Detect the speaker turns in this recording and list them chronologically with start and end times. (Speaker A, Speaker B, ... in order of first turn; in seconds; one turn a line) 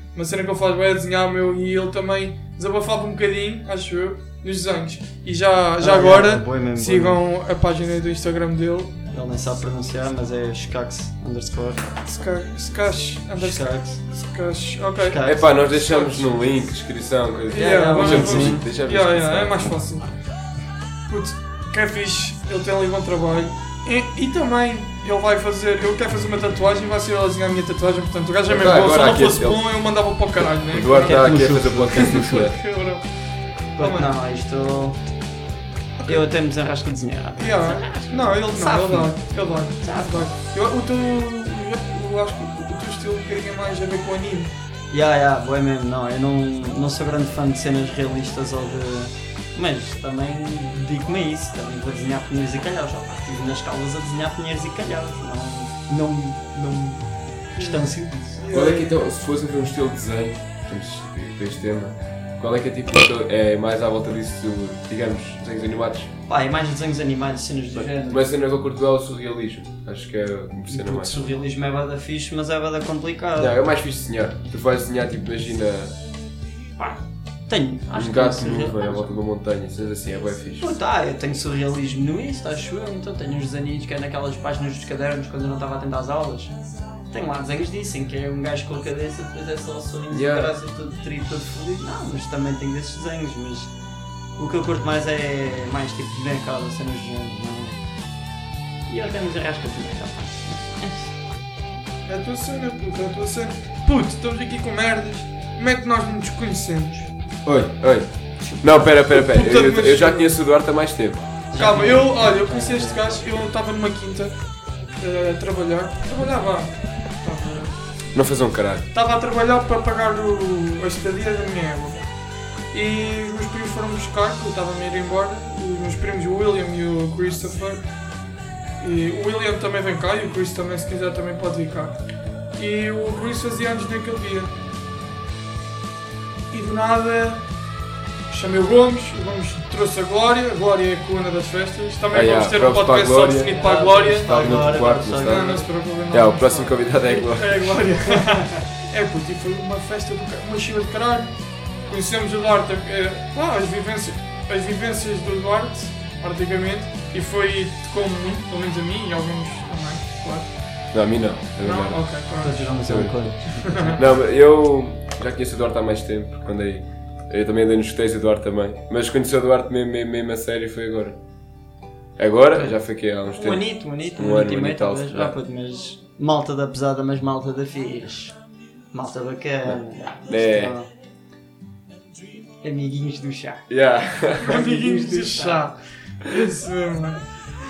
Speaker A: 0.1-8.9
Speaker B: 5.8-7.2
Speaker B: 9.1-11.9
Speaker A: 12.0-15.2
Speaker B: 13.4-14.0
Speaker B: 14.9-16.2
Speaker C: 15.2-19.9
Speaker A: 17.5-20.0
Speaker B: 17.6-18.7
Speaker A: 21.1-33.0
Speaker C: 28.5-29.6
Speaker C: 30.4-32.5
Speaker B: 30.9-32.4
Speaker B: 33.8-35.0
Speaker A: 33.8-34.1
Speaker B: 36.0-39.1
Speaker A: 37.4-44.5
Speaker B: 39.8-40.3
Speaker B: 44.9-58.8
Speaker A: 57.6-57.8
Speaker A: 58.4-58.8
Speaker C: 58.5-66.1
Speaker B: 66.3-68.3
Speaker C: 67.7-71.2
Speaker B: 70.7-73.5
Speaker C: 73.4-76.0
Speaker B: 76.8-79.1
Speaker C: 77.9-80.7
Speaker B: 80.6-86.5
Speaker B: 87.1-93.7
Speaker C: 90.1-90.5
Speaker B: 94.4-97.8
Speaker B: 98.9-101.1
Speaker A: 102.1-107.0
Speaker C: 107.4-111.2
Speaker B: 108.4-108.9
Speaker A: 109.0-110.4
Speaker B: 111.5-113.2
Speaker A: 111.5-114.3
Speaker A: 115.0-117.7
Speaker C: 118.1-118.8
Speaker A: 118.9-122.0
Speaker A: 122.7-127.8
Speaker A: 128.8-132.0
Speaker A: 132.6-134.5
Speaker A: 136.5-137.4
Speaker A: 138.3-151.3
Speaker C: 142.1-143.6
Speaker B: 143.5-145.7
Speaker C: 144.2-145.5
Speaker C: 146.1-147.8
Speaker A: 151.9-160.5
Speaker C: 160.9-162.0
Speaker A: 161.6-162.7
Speaker B: 162.4-164.0
Speaker C: 162.8-163.2
Speaker A: 163.7-164.0
Speaker C: 163.9-171.2
Speaker C: 172.2-175.3
Speaker B: 173.3-178.3
Speaker B: 178.9-180.9
Speaker C: 180.3-180.8
Speaker B: 182.6-183.7
Speaker C: 183.7-184.6
Speaker A: 184.4-187.2
Speaker B: 184.5-185.7